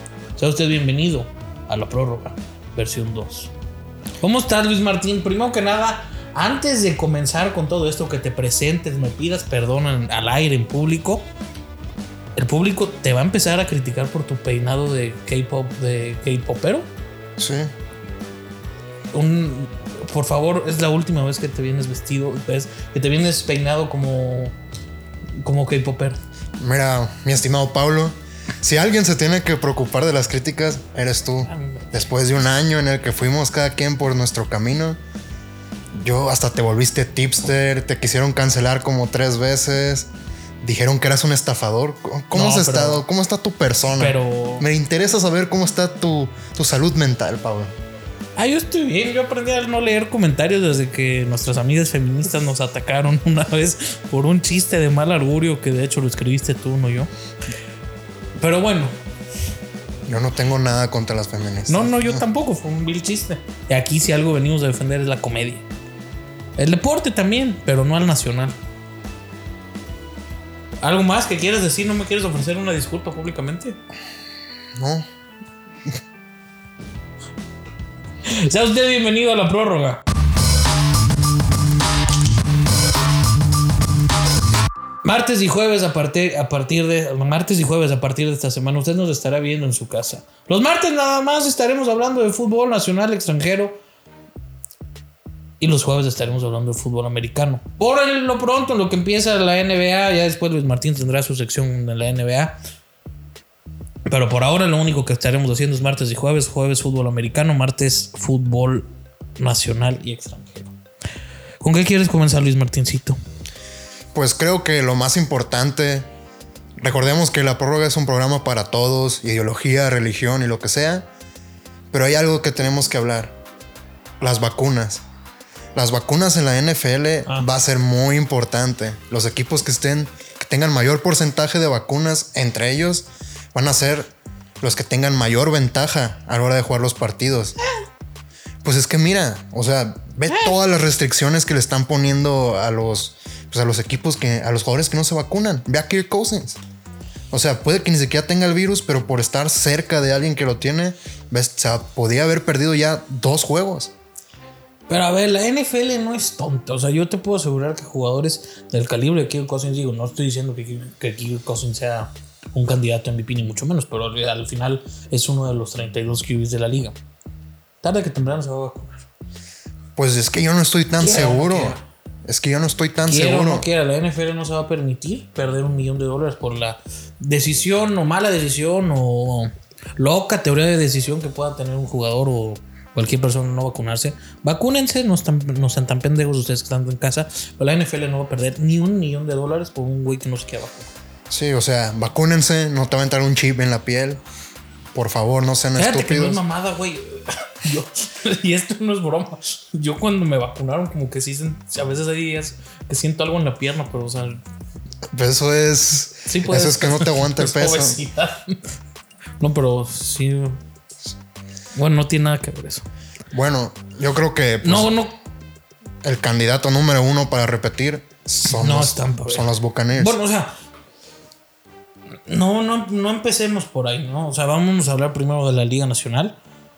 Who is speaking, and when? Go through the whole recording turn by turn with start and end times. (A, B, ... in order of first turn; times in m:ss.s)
0:00.4-0:03.5 A
0:04.2-0:11.3 A
0:12.4-0:16.9 A
0:17.4-0:17.7 B
0:19.1-0:24.6 A
0:25.4-0:26.2 A
0:26.6-0:35.0 B
0:31.5-0:31.9 A
0:36.0-0:40.1 B
0:40.6-0:47.7 B
0:42.3-0:43.0 A
0:43.9-0:44.7 A
0:48.4-0:57.1 A
0:58.4-0:59.0 A
1:00.1-1:02.2 B
1:01.7-1:05.6 A
1:06.6-1:08.6 A
1:10.8-1:13.8 A
1:14.8-1:15.1 B
1:18.3-1:20.0 A
1:25.0-1:33.8 A
1:35.6-1:42.6 A
1:44.1-1:48.9 A
1:49.4-1:50.7 A
1:51.6-1:53.2 A
1:54.1-1:56.1 B
1:56.8-2:01.1 B
2:01.9-2:03.4 B
2:04.2-2:05.0 B
2:05.8-2:17.6 B
2:18.6-2:26.6 B
2:20.3-2:20.6 A
2:27.3-2:33.9 B
2:34.9-2:47.0 A
2:47.8-2:49.1 A
2:50.0-2:53.7 B
2:51.0-2:51.8 A
2:53.0-3:10.9 A
3:11.3-3:14.2 B
3:14.9-3:16.4 B
3:15.8-3:24.4 A
3:25.1-3:28.0 B
3:26.3-3:28.6 A
3:29.4-3:30.6 A
3:31.7-3:32.8 A
3:33.3-3:35.0 B
3:34.6-3:35.2 A
3:36.0-3:40.2 B
3:38.5-3:40.5 A
3:42.3-3:46.4 A